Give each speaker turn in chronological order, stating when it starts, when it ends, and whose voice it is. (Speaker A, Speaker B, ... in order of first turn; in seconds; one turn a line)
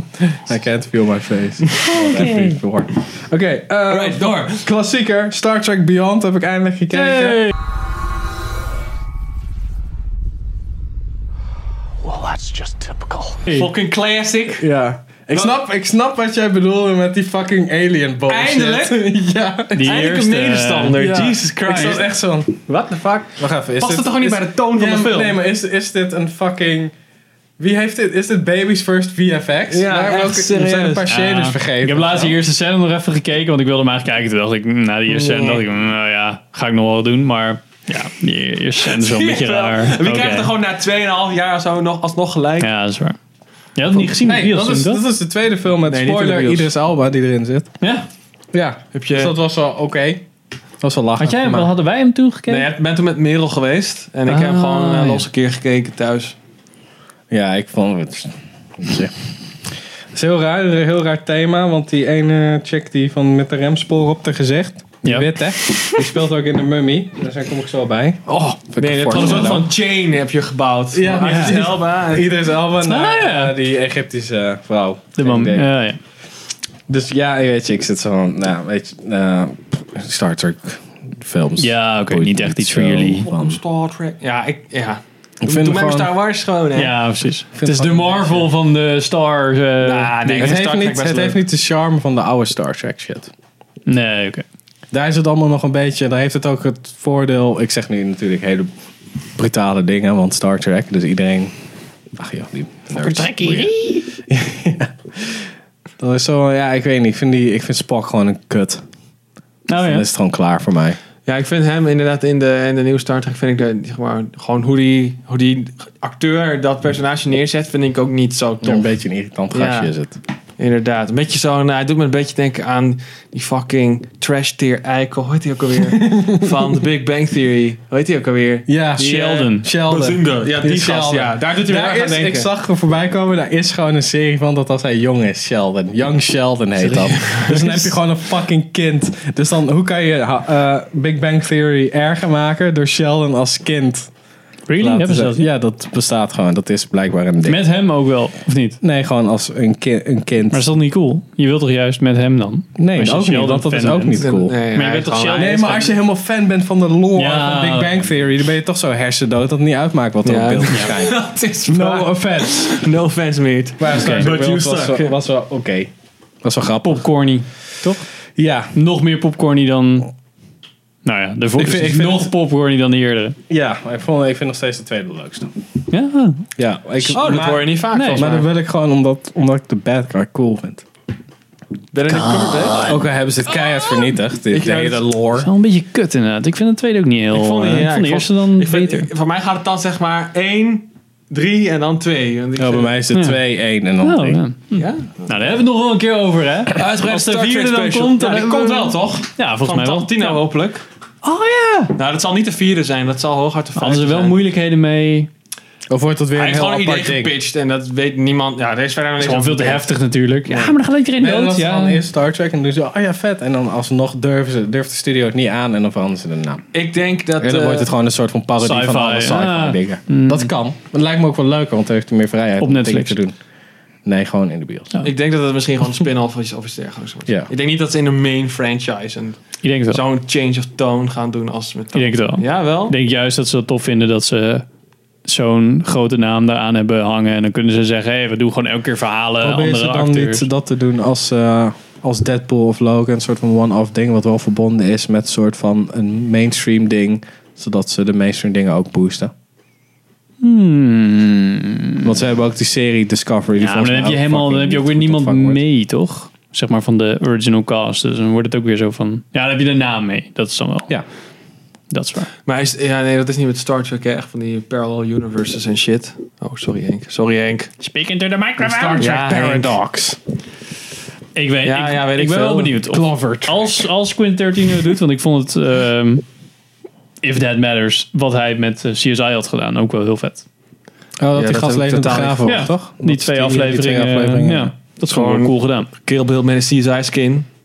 Speaker A: 0.2-7.5
Speaker B: 1.8-2.3
Speaker C: 1.9-2.6
Speaker B: 3.9-4.7
Speaker C: 6.9-7.5
Speaker A: 12.1-13.2
Speaker C: 13.3-13.7
Speaker B: 13.5-14.6
Speaker A: 14.6-20.1
Speaker B: 18.3-19.1
Speaker C: 19.7-22.0
Speaker B: 19.8-22.1
Speaker A: 21.0-22.6
Speaker B: 22.6-25.4
Speaker A: 23.4-26.9
Speaker A: 27.6-32.4
Speaker B: 29.7-31.1
Speaker C: 31.1-40.5
Speaker B: 35.1-35.6
Speaker B: 38.8-42.7
Speaker C: 42.6-43.2
Speaker C: 43.7-45.0
Speaker A: 44.1-47.7
Speaker B: 45.9-46.7
Speaker C: 47.8-48.1
Speaker A: 48.5-50.2
Speaker B: 48.9-49.3
Speaker A: 50.8-51.7
Speaker C: 51.2-52.7
Speaker B: 52.5-56.4
Speaker C: 54.3-55.2
Speaker A: 57.3-59.1
Speaker A: 60.1-69.7
Speaker C: 65.0-66.0
Speaker B: 68.3-72.4
Speaker C: 69.1-69.5
Speaker A: 70.9-75.7
Speaker C: 71.2-71.6
Speaker C: 72.8-73.5
Speaker C: 75.2-76.0
Speaker A: 76.9-83.6
Speaker C: 81.6-83.3
Speaker B: 83.2-86.9
Speaker A: 85.4-86.1
Speaker C: 86.7-90.6
Speaker A: 87.5-88.4
Speaker B: 89.8-91.4
Speaker A: 90.4-93.3
Speaker C: 93.8-94.4
Speaker A: 94.9-98.7
Speaker A: 99.3-101.5
Speaker A: 102.2-105.5
Speaker C: 103.0-104.0
Speaker A: 106.0-108.8
Speaker C: 109.7-110.0
Speaker A: 109.7-111.0
Speaker B: 111.2-118.9
Speaker A: 118.6-120.2
Speaker B: 119.5-119.9
Speaker B: 120.6-132.5
Speaker A: 126.0-126.4
Speaker A: 128.7-144.1
Speaker C: 129.0-129.7
Speaker B: 136.8-137.9
Speaker C: 144.7-145.5
Speaker A: 144.8-147.6
Speaker C: 147.4-148.8
Speaker A: 148.8-150.7
Speaker C: 150.5-155.8
Speaker A: 152.8-154.6
Speaker B: 154.2-155.9
Speaker A: 155.3-162.7
Speaker C: 157.1-158.1
Speaker B: 160.2-165.2
Speaker C: 160.7-161.0
Speaker A: 163.8-165.9
Speaker C: 163.9-164.3
Speaker A: 166.4-167.1
Speaker C: 166.8-168.0
Speaker A: 168.3-168.7
Speaker C: 168.7-170.1
Speaker C: 171.0-173.4
Speaker A: 171.6-172.3
Speaker A: 173.5-175.5
Speaker C: 175.9-176.4
Speaker A: 176.6-180.8
Speaker B: 177.1-178.5
Speaker C: 177.9-178.3
Speaker B: 181.9-182.9
Speaker C: 182.1-183.0
Speaker A: 182.8-185.5
Speaker B: 184.5-185.0
Speaker C: 185.3-189.1
Speaker B: 187.3-192.9
Speaker A: 192.6-194.4
Speaker C: 193.1-193.4
Speaker C: 194.0-200.4
Speaker B: 194.7-195.4
Speaker B: 196.7-200.8
Speaker C: 201.2-201.9
Speaker B: 201.9-204.4
Speaker C: 203.7-205.3
Speaker A: 205.9-207.3
Speaker B: 206.3-209.9
Speaker C: 209.2-212.0
Speaker A: 211.2-216.7
Speaker B: 216.7-217.9
Speaker A: 217.4-223.3
Speaker C: 218.6-220.5
Speaker C: 222.6-223.2
Speaker A: 224.0-224.9
Speaker B: 225.0-232.9
Speaker C: 229.6-230.0
Speaker C: 231.9-234.7
Speaker C: 235.2-240.4
Speaker A: 239.4-249.3
Speaker C: 250.4-252.1
Speaker A: 252.0-255.6
Speaker C: 253.6-260.9
Speaker C: 261.9-262.3
Speaker B: 262.4-267.7
Speaker C: 267.8-269.1
Speaker A: 268.6-270.2
Speaker B: 269.0-269.8
Speaker C: 271.3-276.2
Speaker B: 271.6-273.0
Speaker A: 272.9-273.7
Speaker C: 277.2-280.4
Speaker A: 281.2-284.7
Speaker B: 281.4-282.5
Speaker C: 282.4-285.9
Speaker B: 285.1-287.4